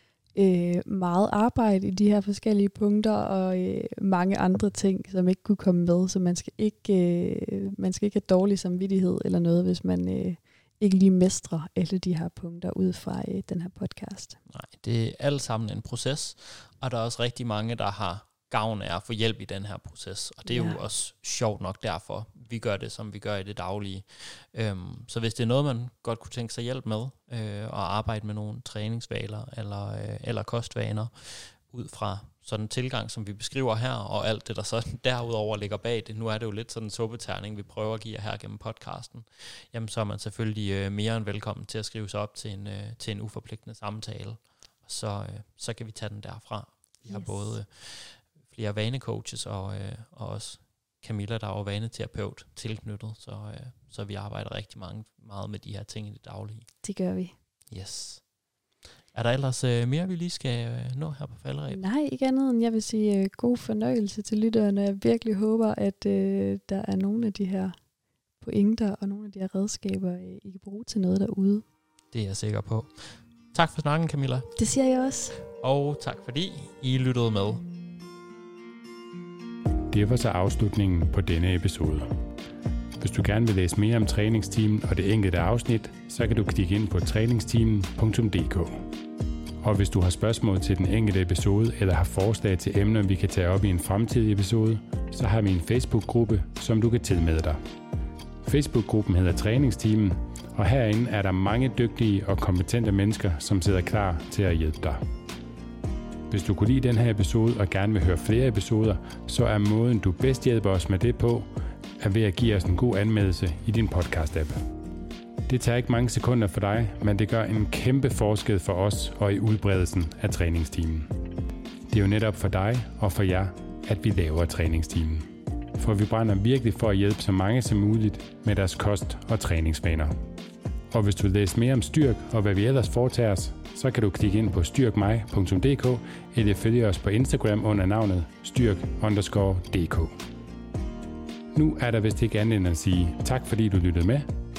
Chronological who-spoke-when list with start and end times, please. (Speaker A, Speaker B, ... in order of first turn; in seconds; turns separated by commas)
Speaker A: 0.3-14.4, Speaker B: 14.5-56.7, Speaker A: 20.4-20.8, Speaker A: 47.1-47.6, Speaker A: 56.8-57.3, Speaker B: 57.7-58.3, Speaker B: 59.1-61.8, Speaker A: 61.7-67.7, Speaker A: 68.4-71.6, Speaker B: 72.1-74.5, Speaker A: 74.5-75.4, Speaker B: 75.6-77.6, Speaker C: 79.9-82.2, Speaker C: 83.0-88.8, Speaker C: 89.6-97.6, Speaker C: 98.4-105.0, Speaker C: 106.3-114.7, Speaker C: 115.5-121.1, Speaker C: 121.9-130.2, Speaker C: 130.9-140.1, Speaker C: 141.5-144.3